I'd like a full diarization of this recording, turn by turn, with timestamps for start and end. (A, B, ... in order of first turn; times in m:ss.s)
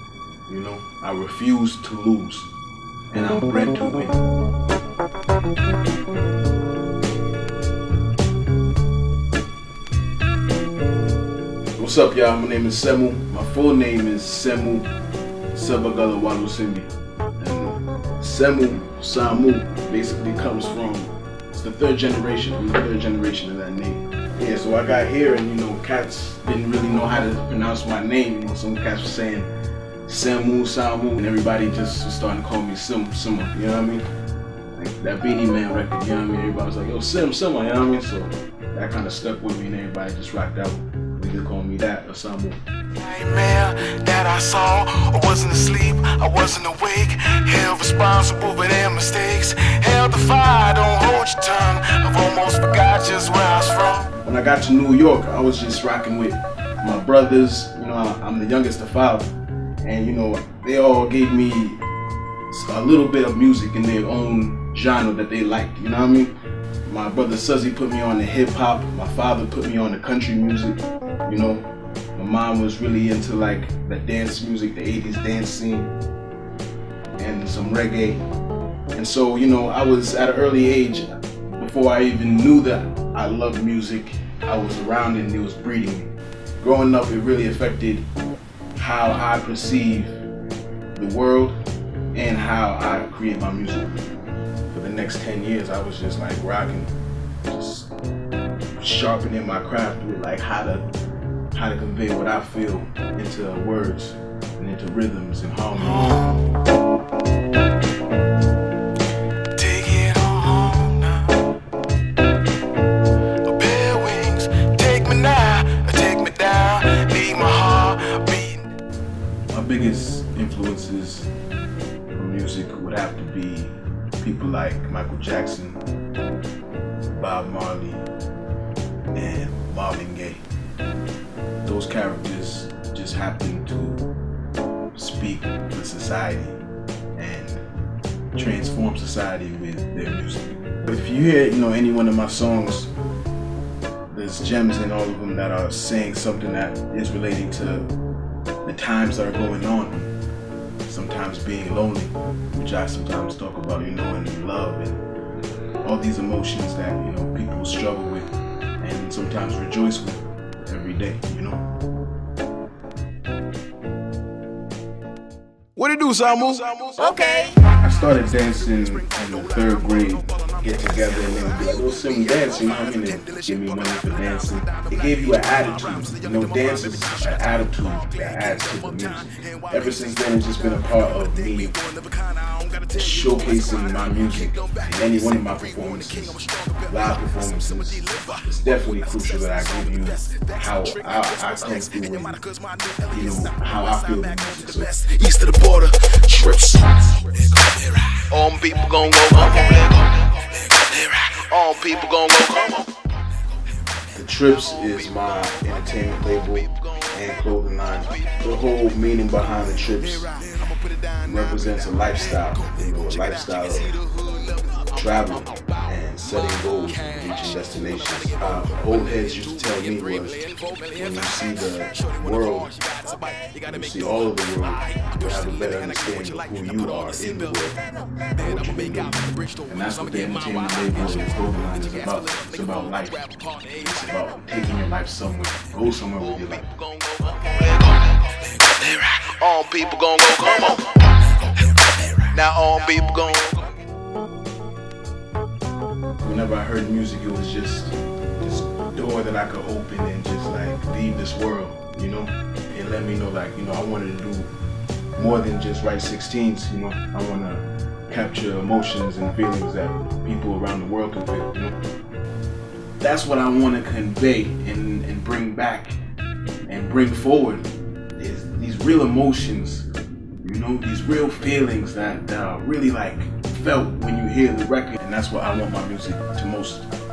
0:00.5-0:02.5 A
0:03.1-0:04.2 A
0:11.8-0:14.9 A
0:15.5-0:29.5 A
0:30.1-0:34.1 A
0:34.8-0:42.6 A
0:43.0-0:54.1 B
0:54.2-0:59.3 A
0:59.8-1:01.8 A
1:02.5-1:06.3 A
1:06.8-1:15.9 A
1:17.2-1:18.2 A
1:18.9-1:28.0 A
1:28.8-1:30.2 A
1:31.0-1:31.6 A
1:32.1-1:34.1 A
1:34.7-1:37.9 A
1:38.7-1:40.8 A
1:41.5-1:46.2 A
1:45.8-1:46.5 B
1:49.6-1:51.5 B
1:53.4-1:58.7 B
1:59.5-2:01.3 A
2:02.1-2:05.8 A
2:07.1-2:08.1 A
2:09.1-2:10.4 A
2:11.6-2:14.1 A
2:15.0-2:16.6 A
2:17.2-2:17.6 A
2:18.3-2:22.9 A
2:24.1-2:27.9 A
2:28.6-2:30.1 A
2:30.9-2:35.0 A
2:35.8-2:38.3 A
2:38.8-2:41.7 A
2:45.8-3:01.8 A
3:02.0-3:02.7 B
3:02.9-3:12.5 A
3:12.6-3:13.0 B
3:13.1-3:18.2 A
3:15.1-3:16.2 B
3:18.1-3:22.9 B
3:18.9-3:19.8 A
3:24.1-3:30.4 A
3:31.2-3:34.0 A
3:34.9-3:42.9 A
3:43.0-3:43.5 B
3:43.6-3:56.8 A
3:56.7-4:03.8 B
4:06.2-4:14.5 A
4:15.2-4:21.8 A
4:23.0-4:26.0 A
4:26.7-4:29.9 A
4:30.4-4:36.9 A